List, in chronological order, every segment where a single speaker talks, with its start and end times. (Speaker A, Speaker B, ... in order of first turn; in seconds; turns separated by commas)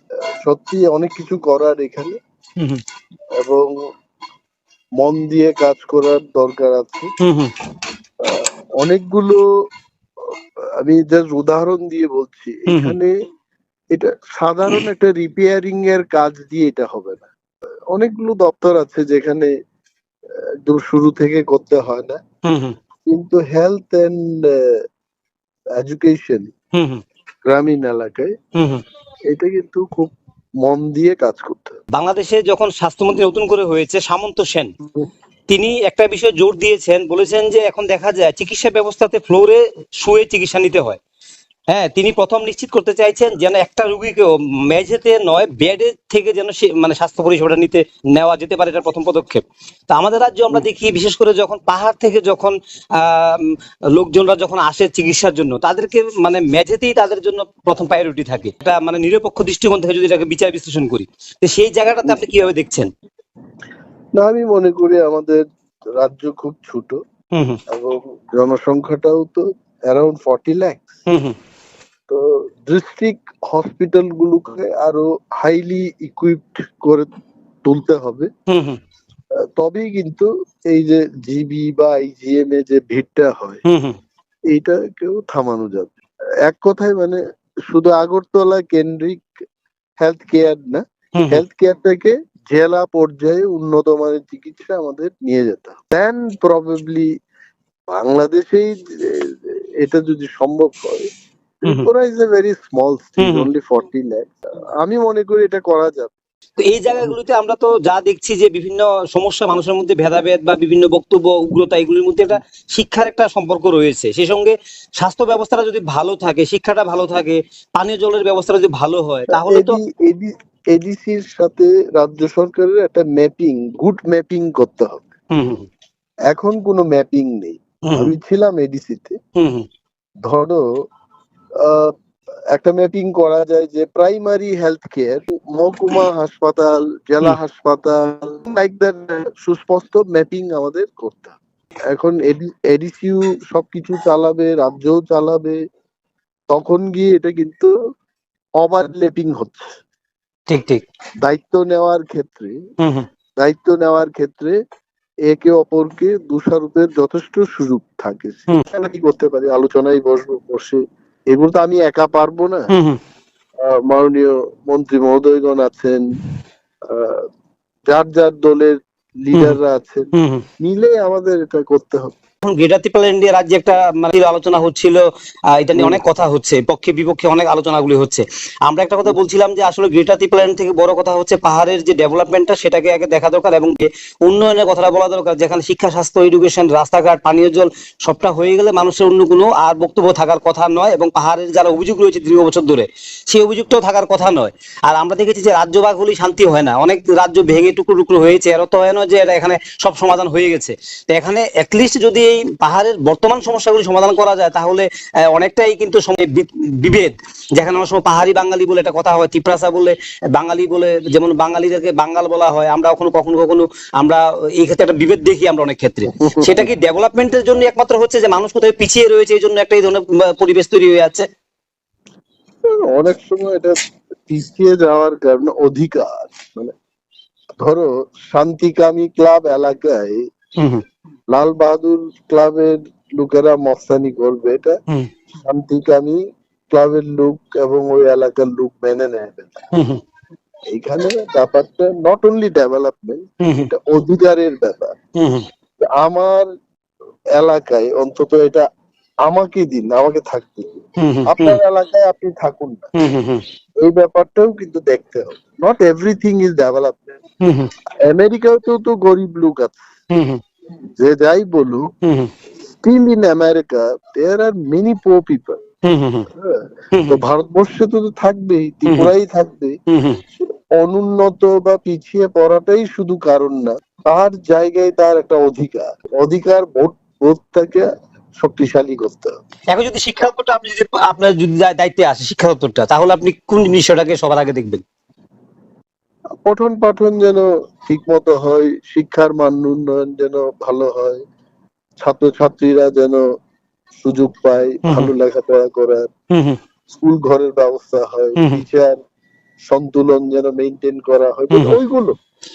Speaker A: 0.4-2.2, Speaker A: 3.4-3.7, Speaker A: 5.0-7.1, Speaker B: 7.2-7.5, Speaker A: 8.2-9.4, Speaker A: 10.8-13.1, Speaker B: 12.7-13.0, Speaker A: 13.9-17.3, Speaker A: 17.9-19.5, Speaker A: 20.7-22.2, Speaker B: 22.4-22.8, Speaker A: 23.1-24.8, Speaker A: 25.8-26.5, Speaker B: 26.7-27.0, Speaker A: 27.5-28.3, Speaker B: 28.6-28.8, Speaker A: 29.3-31.8, Speaker B: 31.9-34.7, Speaker B: 35.5-41.0, Speaker B: 41.7-62.9, Speaker A: 64.2-65.4, Speaker A: 66.0-67.0, Speaker B: 67.3-67.6, Speaker A: 67.7-71.0, Speaker B: 71.1-71.3, Speaker A: 72.1-77.1, Speaker A: 77.6-78.3, Speaker B: 78.5-78.8, Speaker A: 79.6-83.6, Speaker B: 83.7-84.0, Speaker A: 84.5-89.2, Speaker A: 90.0-97.1, Speaker B: 91.2-91.4, Speaker A: 97.9-101.1, Speaker A: 101.6-106.1, Speaker B: 103.2-103.5, Speaker B: 106.6-119.8, Speaker A: 119.3-125.1, Speaker B: 125.3-125.7, Speaker A: 126.3-129.2, Speaker B: 127.8-128.1, Speaker B: 129.4-129.7, Speaker A: 130.2-130.7, Speaker A: 131.6-131.9, Speaker A: 132.5-141.4, Speaker A: 141.9-145.6, Speaker A: 146.5-147.7, Speaker A: 148.6-149.7, Speaker B: 150.5-150.8, Speaker A: 151.2-152.6, Speaker B: 152.8-153.1, Speaker A: 153.4-154.6, Speaker A: 155.3-160.8, Speaker A: 161.3-162.7, Speaker B: 162.7-163.0, Speaker A: 163.6-166.0, Speaker A: 166.9-167.2, Speaker A: 167.9-170.1, Speaker B: 170.1-170.4, Speaker A: 170.6-172.2, Speaker B: 172.4-175.0, Speaker B: 175.6-221.2, Speaker A: 216.2-216.7, Speaker A: 222.8-223.8, Speaker A: 224.3-226.7, Speaker A: 227.6-230.2, Speaker B: 230.6-230.8, Speaker A: 231.3-234.8, Speaker A: 235.4-239.6, Speaker B: 239.7-240.0, Speaker A: 240.7-244.9, Speaker B: 243.4-243.7, Speaker B: 245.2-245.4, Speaker A: 245.9-246.5, Speaker A: 247.4-248.7, Speaker A: 249.3-252.9, Speaker B: 251.0-251.6, Speaker B: 253.0-253.4, Speaker A: 253.8-257.2, Speaker B: 257.4-257.7, Speaker A: 258.1-259.8, Speaker B: 260.1-260.4, Speaker A: 261.0-261.9, Speaker B: 262.0-262.3, Speaker A: 262.8-265.6, Speaker B: 265.8-266.3, Speaker A: 266.3-269.8, Speaker B: 266.9-267.2, Speaker B: 268.9-269.1, Speaker B: 269.9-270.2, Speaker A: 270.8-277.9, Speaker A: 278.4-279.4, Speaker B: 279.7-284.8, Speaker A: 286.4-291.2, Speaker A: 292.0-293.2, Speaker A: 294.0-296.1, Speaker B: 296.3-296.6, Speaker A: 296.9-298.9, Speaker B: 298.4-298.6, Speaker A: 299.7-302.1, Speaker B: 301.5-301.8